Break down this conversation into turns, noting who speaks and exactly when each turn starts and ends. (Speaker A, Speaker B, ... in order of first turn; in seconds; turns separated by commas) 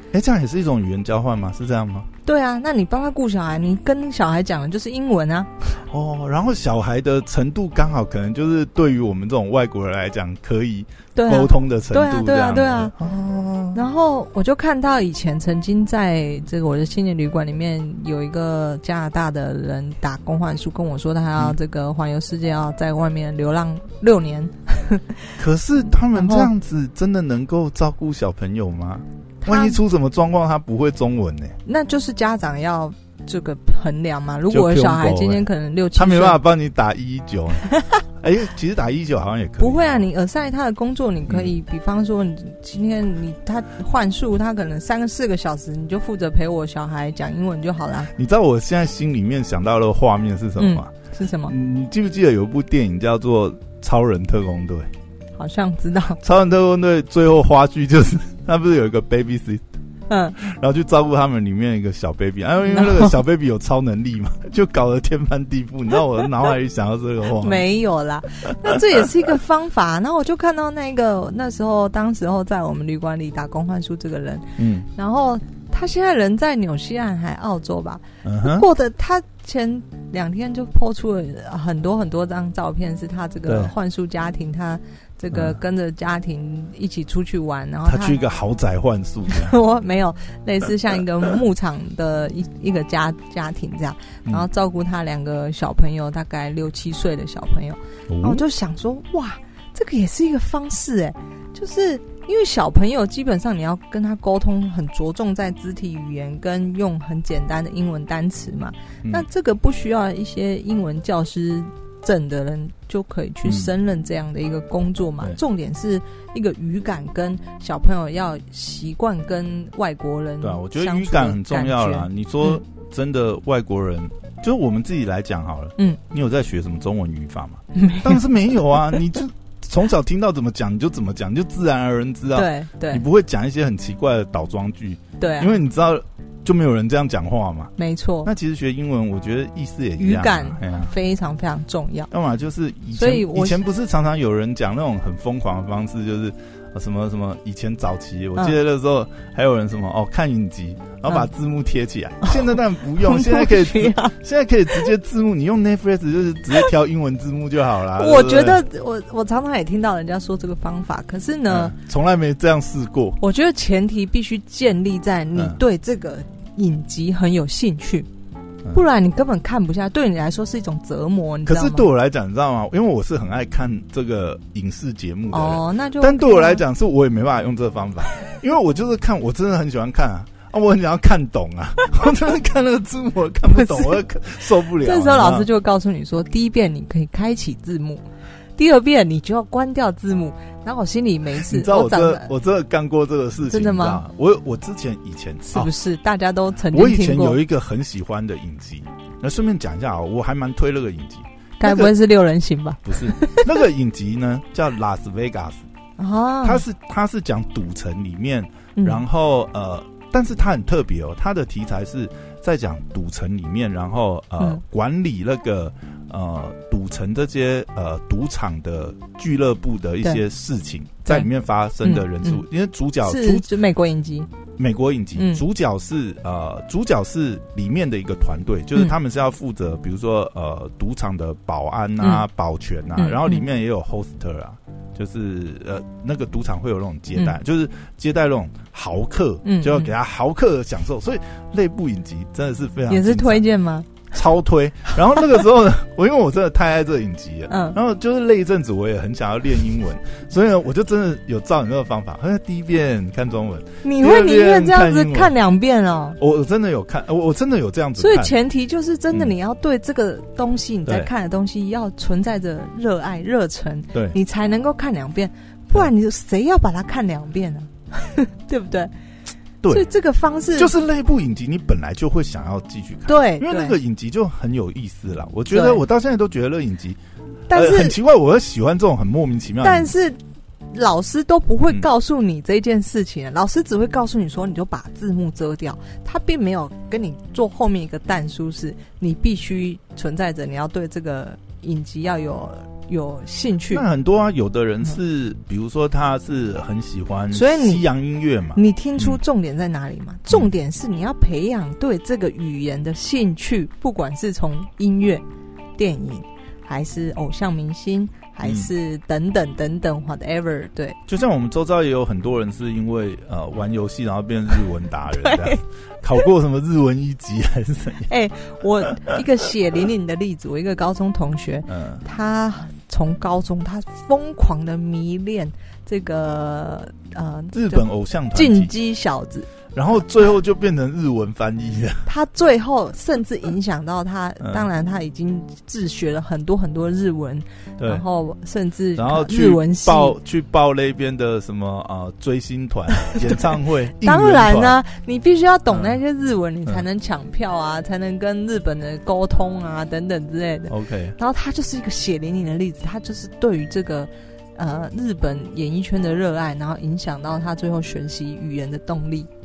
Speaker A: 0.1-2.1, Speaker B: 2.2-5.8, Speaker A: 5.9-13.8, Speaker B: 11.2-12.9, Speaker B: 13.7-25.4, Speaker A: 25.4-31.6, Speaker B: 26.1-26.5, Speaker B: 29.4-29.8, Speaker B: 31.6-36.4, Speaker A: 34.5-40.0, Speaker B: 37.7-38.0, Speaker B: 39.6-48.1, Speaker A: 48.1-50.9, Speaker B: 50.6-51.5, Speaker A: 51.5-54.9, Speaker B: 55.4-56.2, Speaker A: 56.2-59.6, Speaker B: 60.1-60.4, Speaker A: 60.4-67.6, Speaker B: 62.6-63.2, Speaker B: 67.3-88.2, Speaker A: 68.7-69.1, Speaker A: 74.6-74.9, Speaker A: 78.2-78.7, Speaker A: 83.5-83.7, Speaker A: 85.3-85.6, Speaker A: 87.8-89.6, Speaker B: 89.3-122.6, Speaker A: 98.1-98.4, Speaker A: 113.5-113.7, Speaker A: 120.4-137.7, Speaker B: 127.7-128.2, Speaker B: 132.3-133.1, Speaker B: 135.2-135.6, Speaker B: 137.8-138.3, Speaker A: 138.2-140.9, Speaker B: 140.0-142.1, Speaker A: 142.1-158.6, Speaker B: 142.9-143.6, Speaker B: 152.2-154.2, Speaker B: 157.9-161.8, Speaker A: 161.5-163.2, Speaker B: 163.2-168.1, Speaker B: 168.7-171.9, Speaker A: 171.5-185.5, Speaker B: 175.3-176.6, Speaker B: 183.5-184.0, Speaker B: 184.7-188.0, Speaker B: 188.6-192.3, Speaker A: 191.4-195.7, Speaker B: 193.5-194.0, Speaker B: 195.5-197.4, Speaker A: 196.7-201.9, Speaker B: 201.6-203.5, Speaker A: 202.8-205.7, Speaker B: 206.0-206.6, Speaker A: 206.4-223.5, Speaker B: 208.8-209.0, Speaker B: 221.8-222.4, Speaker B: 223.0-224.3, Speaker A: 224.6-243.4, Speaker B: 225.2-225.4, Speaker B: 232.0-232.3, Speaker B: 233.0-233.4, Speaker B: 239.4-239.9, Speaker B: 242.9-244.1, Speaker A: 244.1-255.3, Speaker B: 247.5-247.8, Speaker B: 253.8-256.2, Speaker A: 256.2-258.3, Speaker B: 258.0-268.9, Speaker A: 260.9-261.1, Speaker A: 269.6-269.9, Speaker B: 269.7-270.7, Speaker A: 270.6-277.0, Speaker B: 273.1-273.8, Speaker B: 275.5-275.8, Speaker B: 277.5-278.0, Speaker A: 277.5-279.9, Speaker B: 279.6-280.2, Speaker B: 280.7-293.9, Speaker A: 293.7-299.2, Speaker B: 297.3-297.8, Speaker B: 298.6-305.2, Speaker B: 305.8-311.0, Speaker A: 308.4-308.7, Speaker A: 311.1-318.1, Speaker B: 315.2-315.6, Speaker B: 318.1-329.5, Speaker A: 321.7-322.0, Speaker A: 327.5-328.7, Speaker A: 329.7-332.1, Speaker B: 332.1-340.2, Speaker A: 334.4-334.7, Speaker A: 337.8-338.0, Speaker A: 339.0-344.8, Speaker B: 343.0-343.5, Speaker B: 344.0-359.3, Speaker A: 345.7-346.0, Speaker A: 350.7-351.2